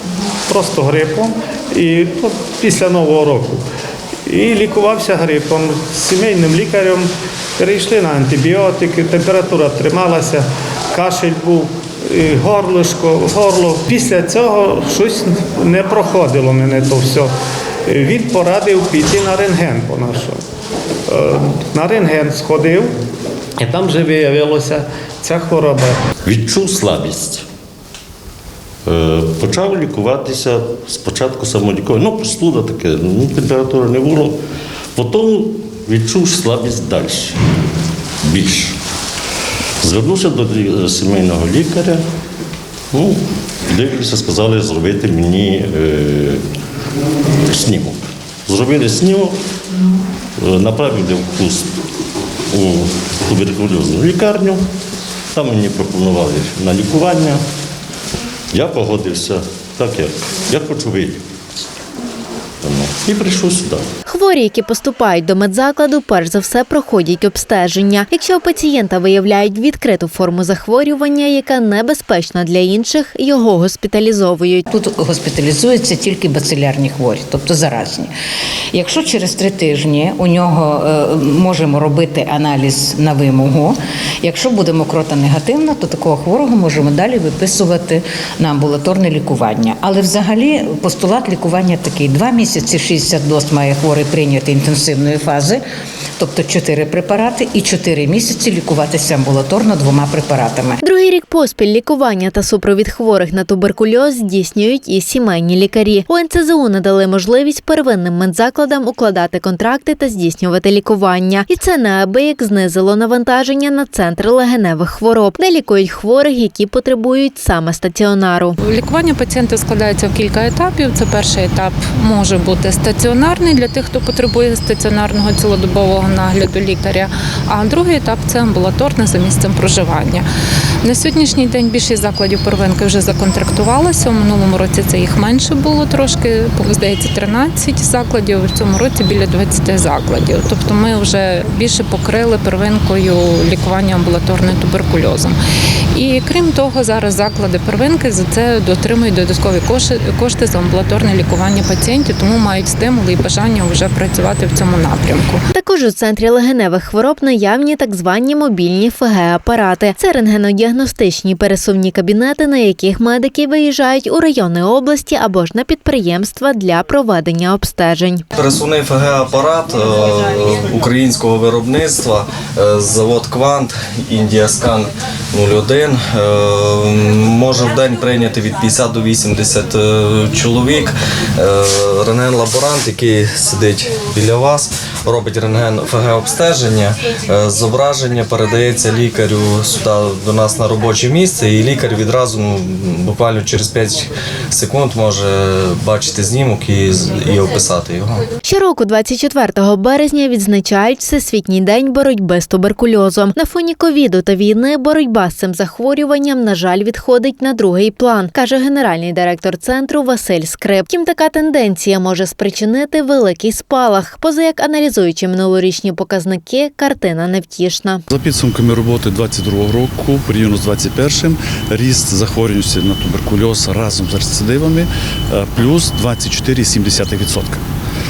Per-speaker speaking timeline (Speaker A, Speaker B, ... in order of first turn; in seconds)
Speaker A: 0.5-3.6, 4.3-17.3, 17.9-20.4, 21.1-22.9, 23.6-26.0
Speaker B: 26.2-27.4, 28.9-34.4, 35.0-37.5, 38.2-38.8, 39.8-42.0, 42.9-46.4, 47.4-49.4, 50.4-51.7, 52.5-54.6, 55.3-57.4, 58.5-61.2, 62.6-63.9
Speaker C: 64.1-74.7, 100.8-118.6, 155.5-168.2, 198.4-218.0
Speaker D: 74.7-78.1, 78.7-95.6, 96.2-100.8
Speaker E: 118.6-130.2, 130.8-145.4, 145.9-155.4
Speaker F: 168.3-198.3
Speaker G: 218.1-227.6